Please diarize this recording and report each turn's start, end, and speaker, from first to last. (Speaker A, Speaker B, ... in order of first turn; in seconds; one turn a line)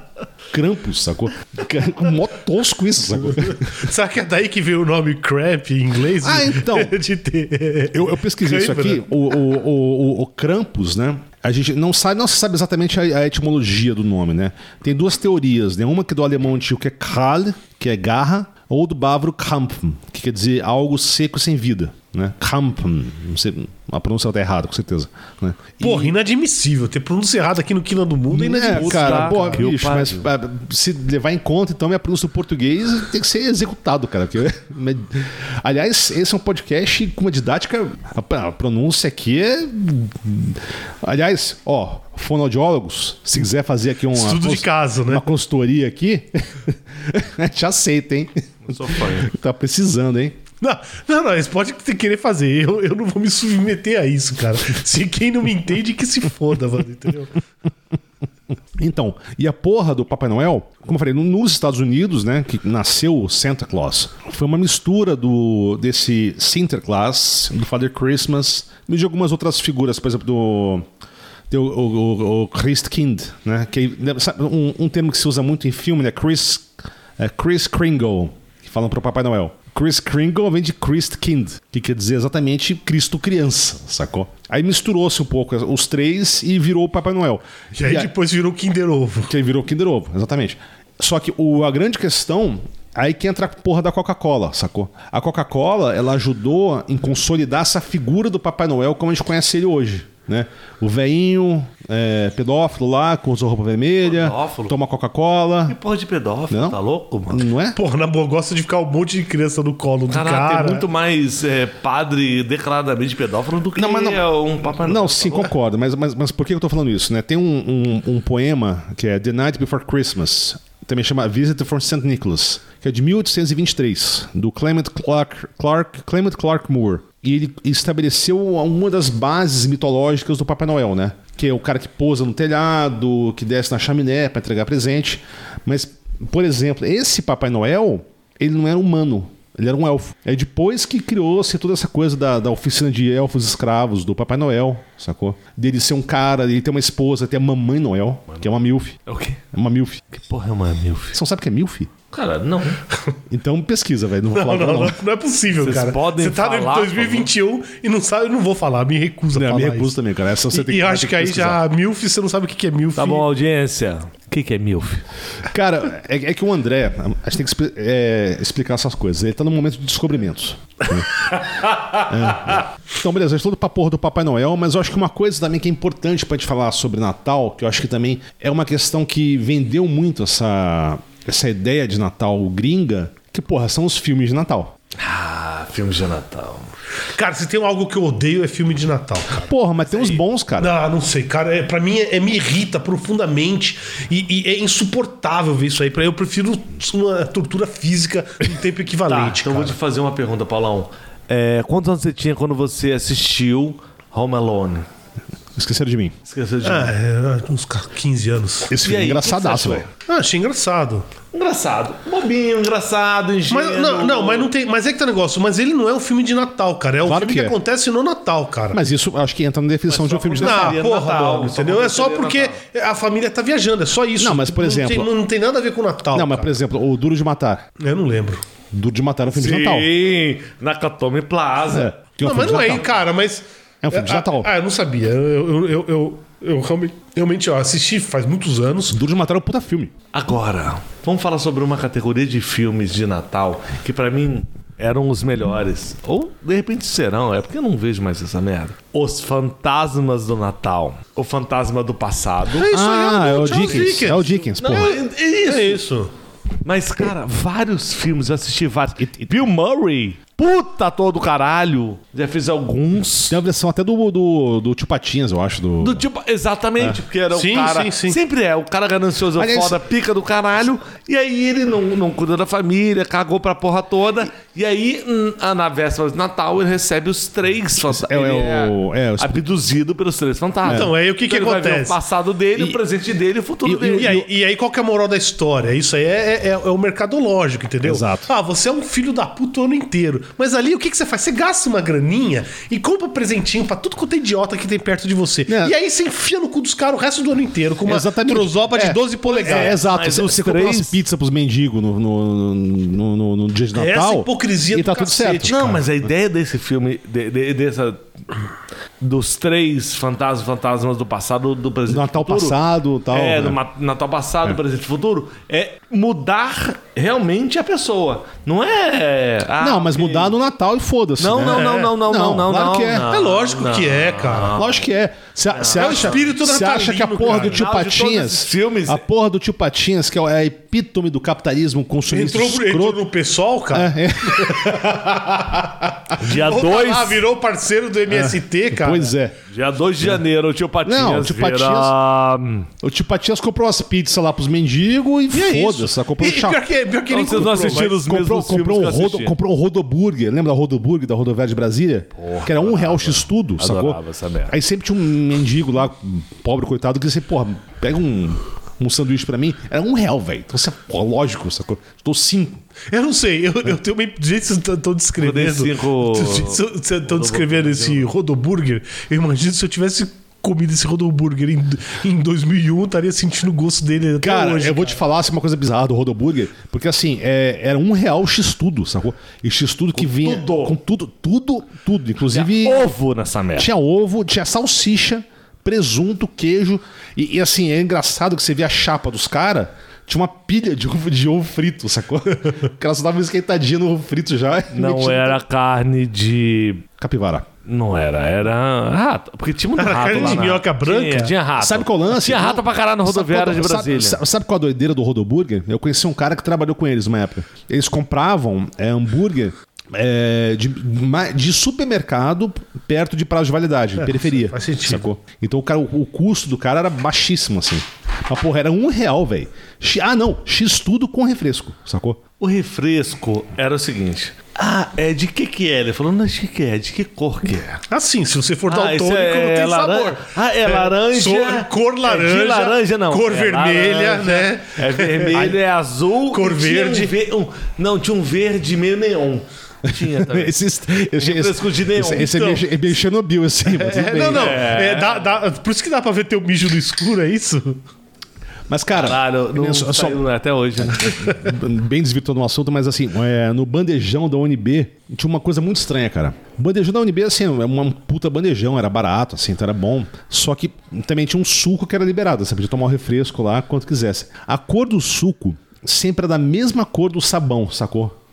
Speaker A: 0.5-3.8
Speaker B: 3.4-9.1
Speaker A: 6.2-6.9
Speaker A: 7.9-26.1
Speaker B: 25.8-29.6
Speaker A: 28.3-50.4
Speaker C: 28.5-30.3
Speaker B: 44.1-45.2
Speaker C: 48.6-49.3
Speaker B: 50.6-57.3
Speaker A: 58.8-70.8
Speaker A: 71.5-88.1
Speaker B: 87.7-89.3
Speaker A: 89.3-105.8
Speaker C: 104.0-104.7
Speaker C: 105.7-107.4
Speaker A: 106.5-106.8
Speaker A: 107.3-107.8
Speaker B: 107.7-110.8
Speaker C: 110.1-115.5
Speaker A: 113.8-114.3
Speaker A: 114.8-149.0
Speaker C: 149.1-149.4
Speaker A: 149.5-150.1
Speaker C: 150.1-151.2
Speaker A: 151.1-151.9
Speaker C: 152.1-152.8
Speaker A: 153.3-155.0
Speaker B: 154.3-159.9
Speaker C: 155.6-157.3
Speaker A: 159.3-161.6
Speaker B: 160.5-163.2
Speaker C: 162.9-165.0
Speaker A: 165.4-171.3
Speaker C: 171.2-172.6
Speaker A: 172.1-184.7
Speaker C: 185.0-186.7
Speaker B: 187.2-189.5
Speaker A: 189.3-190.7
Speaker C: 189.9-190.2
Speaker B: 190.6-199.8
Speaker C: 199.1-204.9
Speaker A: 205.6-206.2
Speaker C: 206.3-206.9
Speaker B: 206.6-208.7
Speaker A: 208.7-209.9
Speaker C: 208.8-209.9
Speaker B: 210.0-211.1
Speaker C: 211.3-214.5
Speaker B: 213.5-218.8
Speaker A: 217.0-217.6
Speaker A: 218.7-220.8
Speaker C: 219.9-222.6
Speaker B: 220.4-226.5
Speaker A: 224.2-225.1
Speaker A: 226.1-227.7
Speaker B: 227.8-228.4
Speaker A: 228.7-229.9
Speaker C: 229.3-231.9
Speaker A: 231.7-232.9
Speaker B: 232.2-239.0
Speaker A: 233.8-234.5
Speaker A: 238.9-239.9
Speaker C: 240.1-252.7
Speaker B: 252.5-256.1
Speaker A: 252.7-255.0
Speaker C: 253.5-254.0
Speaker C: 254.6-255.8
Speaker C: 256.6-263.4
Speaker A: 259.0-259.4
Speaker A: 263.3-266.0
Speaker C: 265.8-284.1
Speaker B: 267.3-268.2
Speaker A: 269.4-269.8
Speaker A: 277.8-279.4
Speaker A: 280.6-280.9
Speaker B: 280.6-282.0
Speaker A: 283.6-284.3
Speaker B: 283.9-299.8
Speaker A: 287.8-288.3
Speaker A: 295.5-295.7
Speaker A: 297.8-306.0
Speaker C: 299.4-301.0
Speaker B: 303.7-305.5
Speaker C: 305.4-308.4
Speaker C: 309.0-312.6
Speaker A: 311.9-313.6
Speaker C: 313.1-320.3
Speaker A: 319.6-323.1
Speaker C: 321.2-324.8
Speaker B: 321.4-321.9
Speaker B: 323.0-324.5
Speaker A: 324.5-333.1
Speaker C: 325.5-326.3
Speaker B: 325.6-327.6
Speaker C: 327.3-329.0
Speaker B: 332.1-335.2
Speaker A: 333.7-336.1
Speaker B: 336.1-339.1
Speaker C: 336.1-337.2
Speaker A: 338.1-339.4
Speaker C: 339.5-342.7
Speaker A: 340.8-341.9
Speaker A: 342.8-346.6
Speaker B: 345.3-348.0
Speaker C: 347.1-349.3
Speaker A: 347.4-362.6
Speaker C: 352.2-354.6
Speaker B: 362.9-375.0
Speaker C: 365.2-368.1
Speaker A: 374.2-382.9
Speaker C: 380.0-380.8
Speaker C: 382.3-383.7
Speaker A: 383.6-395.4
Speaker C: 394.7-396.9
Speaker A: 397.0-397.5
Speaker C: 397.6-404.2
Speaker B: 399.8-401.3
Speaker A: 400.1-400.4
Speaker A: 401.6-422.2
Speaker B: 414.0-415.1
Speaker C: 422.4-427.8
Speaker B: 427.9-435.5
Speaker C: 428.7-442.5
Speaker B: 436.3-437.1
Speaker A: 439.9-444.7
Speaker B: 442.1-442.6
Speaker B: 443.6-447.8
Speaker C: 444.2-445.3
Speaker A: 448.7-450.2
Speaker C: 448.9-451.3
Speaker A: 450.8-468.1